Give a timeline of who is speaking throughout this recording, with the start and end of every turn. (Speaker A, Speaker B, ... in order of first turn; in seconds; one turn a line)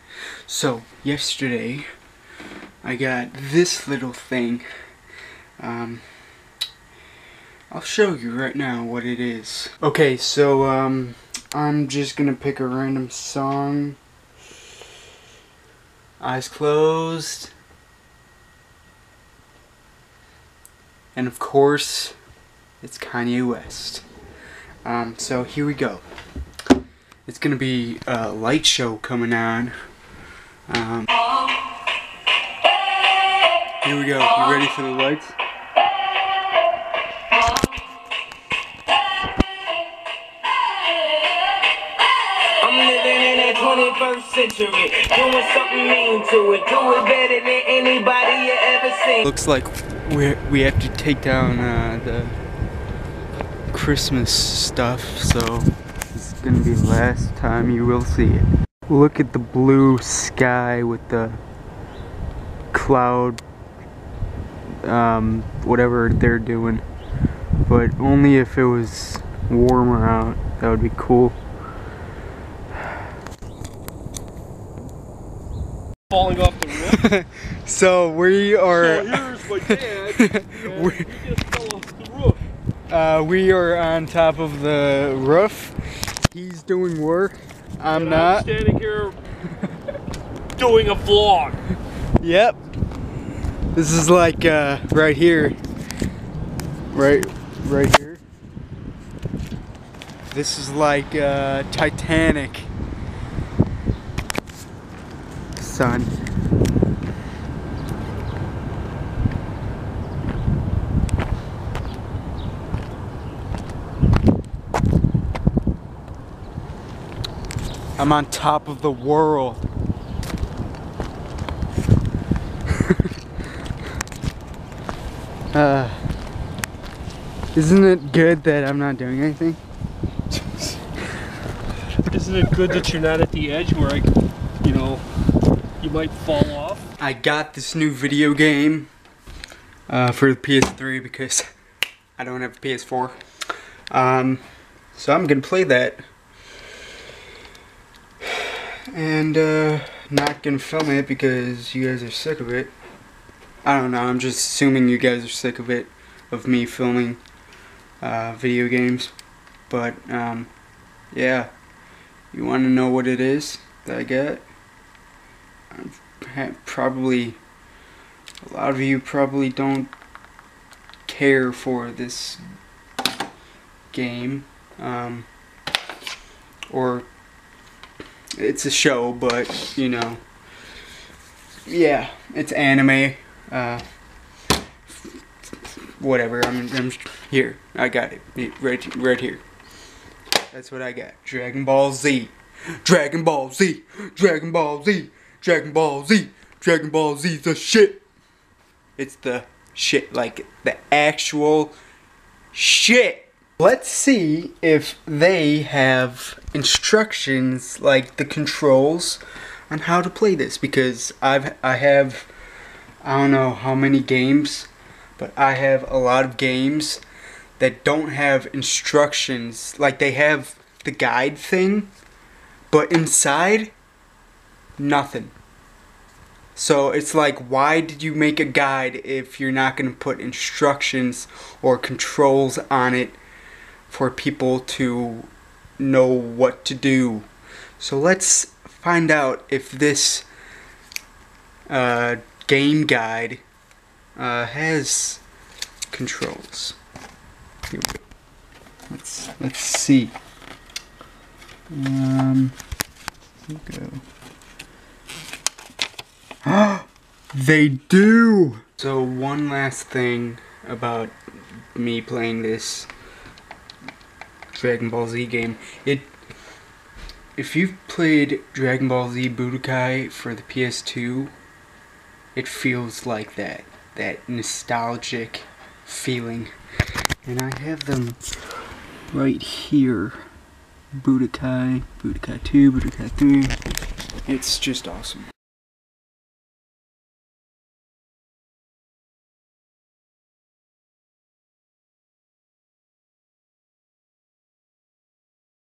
Speaker A: 0.5-1.9
Speaker A: 2.8-4.7
Speaker A: 5.6-6.0
Speaker A: 7.7-14.0
Speaker A: 16.2-17.5
Speaker A: 21.1-22.1
Speaker A: 22.8-24.0
Speaker A: 24.8-26.0
Speaker A: 27.2-29.7
Speaker A: 30.7-31.1
Speaker A: 33.8-35.4
Speaker B: 42.6-49.2
Speaker A: 49.2-52.4
Speaker A: 53.7-61.4
Speaker A: 62.7-63.4
Speaker A: 64.8-66.8
Speaker A: 67.6-71.4
Speaker C: 76.1-77.0
Speaker A: 76.9-81.2
Speaker C: 78.7-82.4
Speaker A: 82.9-88.5
Speaker C: 87.9-89.2
Speaker C: 90.6-91.6
Speaker A: 92.2-92.6
Speaker A: 93.7-95.6
Speaker A: 96.9-98.2
Speaker A: 100.3-102.7
Speaker A: 105.5-106.1
Speaker A: 118.0-119.6
Speaker A: 122.8-123.1
Speaker A: 125.5-126.0
Speaker A: 127.5-129.6
Speaker C: 132.1-134.1
Speaker C: 134.6-135.0
Speaker C: 135.8-136.8
Speaker A: 137.0-138.9
Speaker A: 139.9-141.4
Speaker A: 142.2-143.2
Speaker A: 143.9-144.4
Speaker A: 144.9-146.0
Speaker A: 148.4-152.7
Speaker A: 153.6-157.2
Speaker A: 158.0-159.1
Speaker A: 159.7-160.5
Speaker A: 161.1-161.5
Speaker A: 162.3-164.4
Speaker A: 165.7-167.4
Speaker A: 168.4-169.9
Speaker A: 171.1-172.4
Speaker A: 173.9-175.3
Speaker A: 176.7-177.1
Speaker A: 178.4-180.2
Speaker A: 181.7-183.8
Speaker A: 184.9-189.4
Speaker A: 190.5-198.0
Speaker A: 199.0-201.8
Speaker A: 202.5-212.3
Speaker A: 213.0-217.0
Speaker A: 217.6-221.9
Speaker A: 222.7-223.7
Speaker A: 224.8-225.3
Speaker A: 226.5-233.2
Speaker A: 233.9-237.3
Speaker A: 237.8-240.3
Speaker A: 241.7-243.4
Speaker A: 244.2-245.2
Speaker A: 245.9-246.8
Speaker A: 247.7-248.0
Speaker A: 248.9-250.1
Speaker A: 251.7-252.5
Speaker A: 253.5-254.0
Speaker A: 256.4-261.1
Speaker A: 261.7-262.9
Speaker A: 264.5-266.1
Speaker A: 267.4-271.3
Speaker A: 272.3-276.5
Speaker A: 277.2-278.2
Speaker A: 279.1-280.2
Speaker A: 281.0-283.6
Speaker A: 284.2-285.3